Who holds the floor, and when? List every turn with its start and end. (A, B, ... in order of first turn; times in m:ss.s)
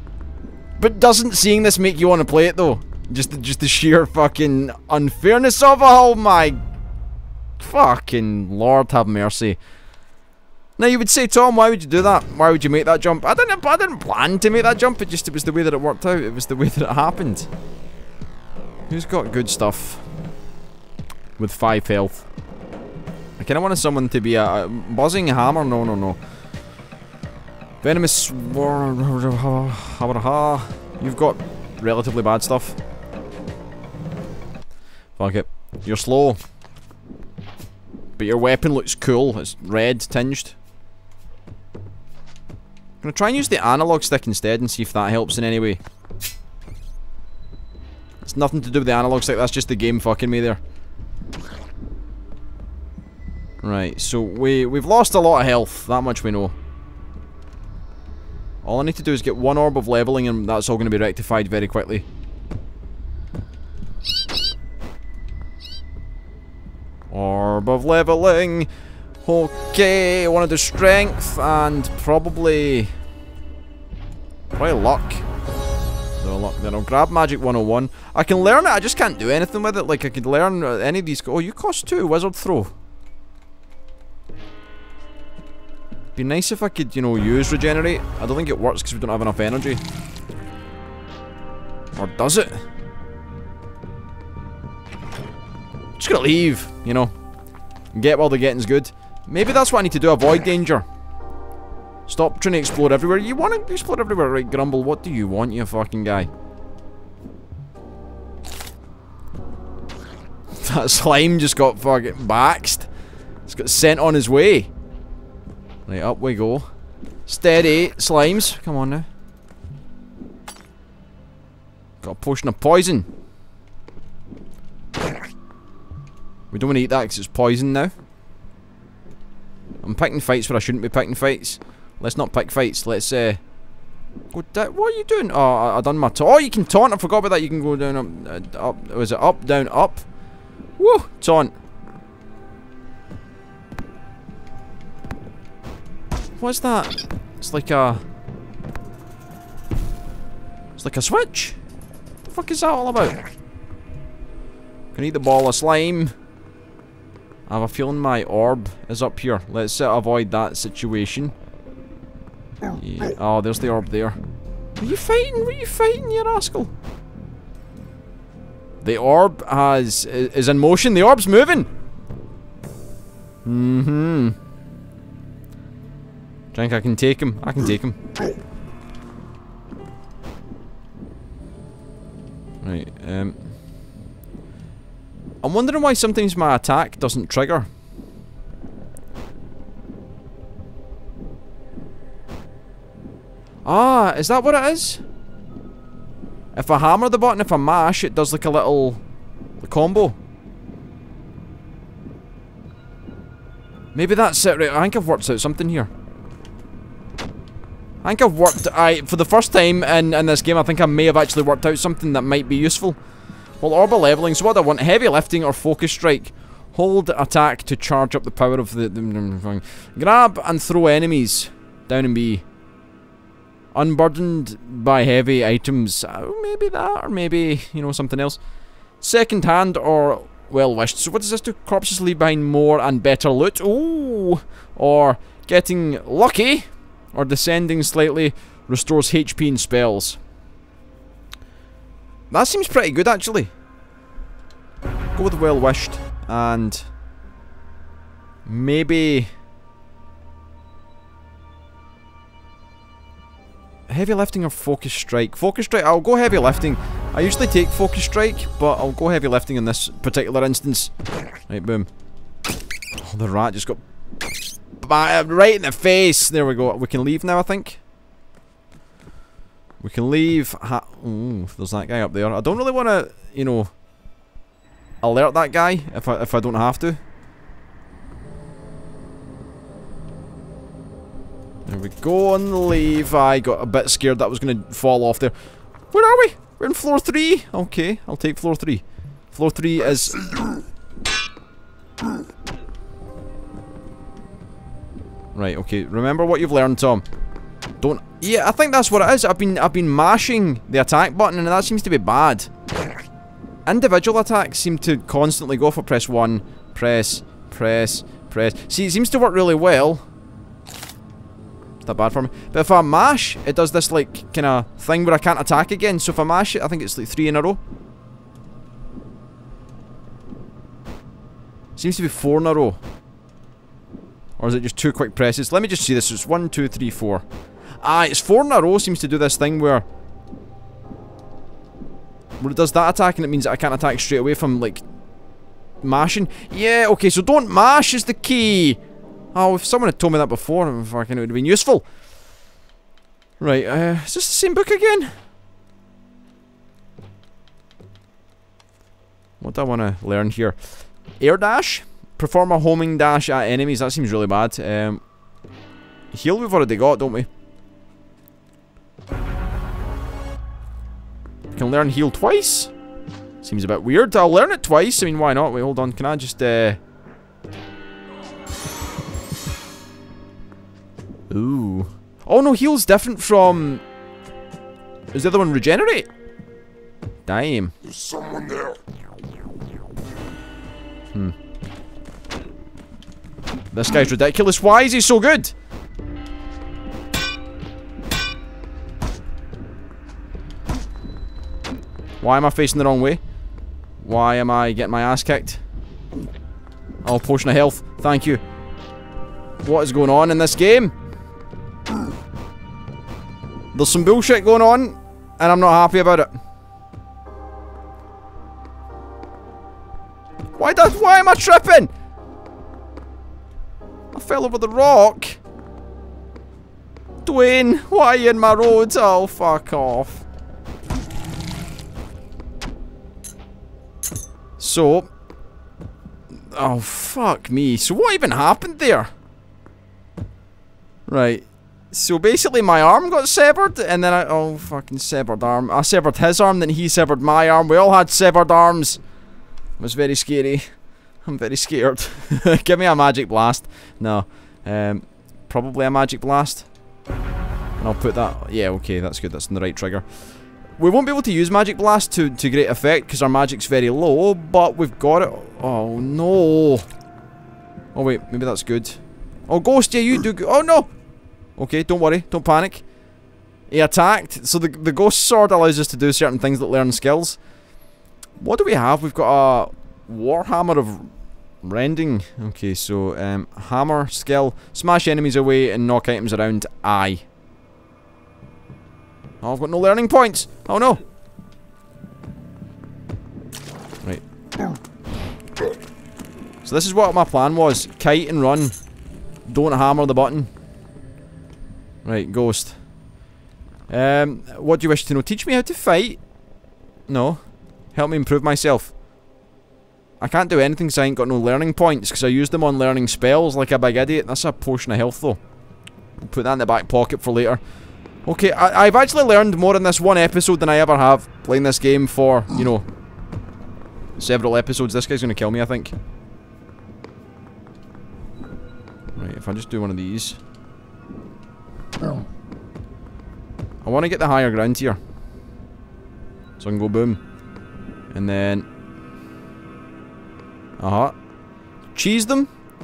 0:00.8-0:06.6 A
0:07.6-0:09.6 A
0:10.8-0:17.5 A
0:18.9-0:20.0 A
0:21.4-0:22.3 A
0:23.4-0:26.2 A
0:27.8-0:32.8 A
0:35.2-0:36.4 A
0:38.2-0:40.6 A
0:43.0-0:45.8 A
0:48.2-0:50.6 A
0:53.6-0:56.6 A
0:58.6-1:02.1 A
1:07.1-1:08.7 A
1:09.2-1:12.9 A
1:14.5-1:15.3 A
1:16.2-1:22.7 A
1:26.2-1:29.8 A
1:32.0-1:32.6 A
1:36.0-1:37.1 A
1:37.9-1:40.8 A
1:42.1-1:46.3 A
1:50.6-1:52.9 A
1:53.5-1:54.7 A
1:55.9-1:56.7 A
1:57.3-1:59.1 A
2:02.0-2:03.1 A
2:06.5-2:07.9 A
2:09.8-2:13.4 A
2:14.3-2:20.0 A
2:20.8-2:21.5 A
2:26.4-2:28.0 A
2:30.8-2:31.6 A
2:32.2-2:33.2 A
2:34.9-2:36.1 A
2:37.5-2:41.3 A
2:42.8-2:44.2 A
2:44.8-2:46.7 A
2:48.8-2:51.7 A
2:53.4-2:54.4 A
2:56.5-2:58.0 A
3:02.6-3:03.5 A
3:05.4-3:07.7 A
3:13.6-3:15.0 A
3:16.5-3:19.0 A
3:19.6-3:20.2 A
3:23.9-3:25.9 A
3:28.0-3:33.0 A
3:33.6-3:42.4 A
3:43.7-3:48.4 A
3:49.0-4:00.2 A
4:02.3-4:03.5 A
4:05.2-4:06.9 A
4:08.4-4:09.3 A
4:13.9-4:20.9 A
4:21.5-4:21.9 A
4:23.0-4:23.8 A
4:24.8-4:27.8 A
4:29.8-4:33.7 A
4:35.0-4:37.0 A
4:41.7-4:45.4 A
4:45.9-4:50.3 A
4:55.4-4:57.0 A
4:57.8-5:02.5 A
5:03.7-5:10.0 A
5:11.8-5:17.6 A
5:21.8-5:22.8 A
5:24.4-5:27.2 A
5:27.8-5:29.8 A
5:32.4-5:34.8 A
5:35.8-5:38.8 A
5:39.3-5:41.8 A
5:43.4-5:45.1 A
5:49.4-5:55.0 A
5:56.1-5:57.3 A
6:01.5-6:02.7 A
6:03.4-6:06.8 A
6:11.3-6:13.8 A
6:15.1-6:16.1 A
6:17.3-6:17.8 A
6:23.7-6:25.5 A
6:32.2-6:33.2 A
6:34.0-6:35.6 A
6:37.0-6:38.4 A
6:39.6-6:40.9 A
6:43.7-6:46.3 A
6:50.6-6:51.9 A
6:54.1-6:55.4 A
6:57.2-7:00.2 A
7:04.6-7:05.1 A
7:06.3-7:09.1 A
7:11.1-7:19.0 A
7:19.8-7:20.6 A
7:21.2-7:26.7 A
7:27.8-7:36.9 A
7:37.9-7:40.9 A
7:41.6-7:42.8 A
7:43.7-7:47.4 A
7:48.4-7:57.2 A
7:59.4-8:01.0 A
8:06.6-8:08.8 A
8:09.5-8:10.5 A
8:12.0-8:12.8 A
8:13.9-8:16.2 A
8:17.1-8:18.9 A
8:20.2-8:25.4 A
8:26.2-8:27.6 A
8:28.2-8:32.8 A
8:34.2-8:36.0 A
8:39.2-8:40.4 A
8:43.8-8:45.0 A
8:46.6-8:47.2 A
8:48.1-8:48.7 A
8:50.8-8:51.2 A
8:52.0-8:52.5 A